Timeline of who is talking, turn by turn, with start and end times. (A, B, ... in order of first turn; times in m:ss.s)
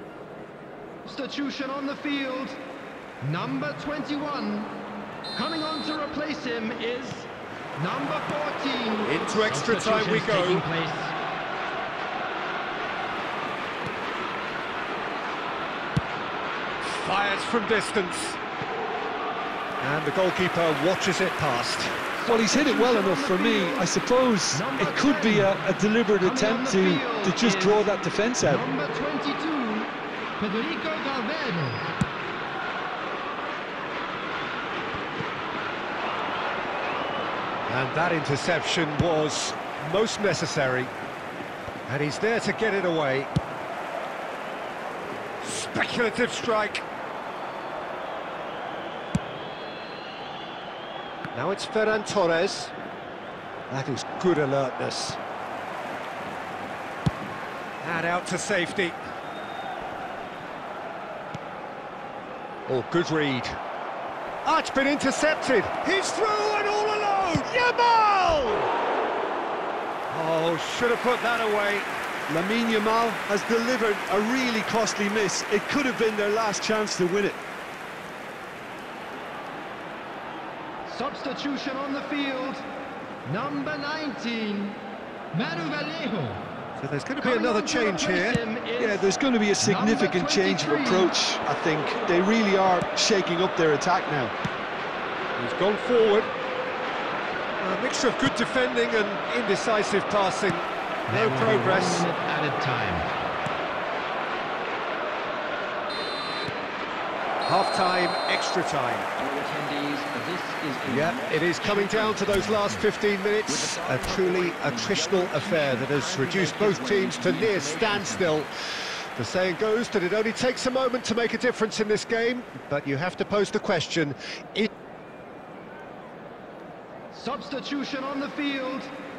0:01.0-0:02.6 A
0:03.2-0:04.8 A
0:05.3-0:11.1 A
0:09.0-0:10.6 B
0:16.8-0:18.4 B
0:19.8-0:22.0 B
0:22.2-0:23.9 A
0:22.3-0:28.6 C
0:24.5-0:25.5 A
0:26.2-0:27.9 A
0:28.4-0:31.9 A
0:37.7-0:40.9 B
0:41.9-0:43.3 B
0:45.4-0:46.9 B
0:51.3-0:52.7 B
0:53.7-0:55.2 B
0:57.8-0:59.0 B
1:02.7-1:03.6 B
1:04.4-1:08.7 B
1:10.1-1:11.9 B
1:12.3-1:17.4 C
1:20.9-1:22.6 A
1:23.2-1:24.8 A
1:25.3-1:26.4 A
1:26.8-1:28.4 B
1:27.2-1:29.0 A
1:28.8-1:34.3 C
1:29.6-1:31.1 A
1:35.4-1:36.3 B
1:37.6-1:42.1 B
1:41.1-1:43.1 A
1:47.4-1:49.1 B
1:49.2-1:52.8 D
1:50.6-1:52.6 A
1:50.9-1:58.5 B
1:53.5-1:58.0 D
1:55.6-1:56.2 A
1:57.0-1:58.2 A
1:59.2-2:04.7 B
2:07.1-2:08.9 A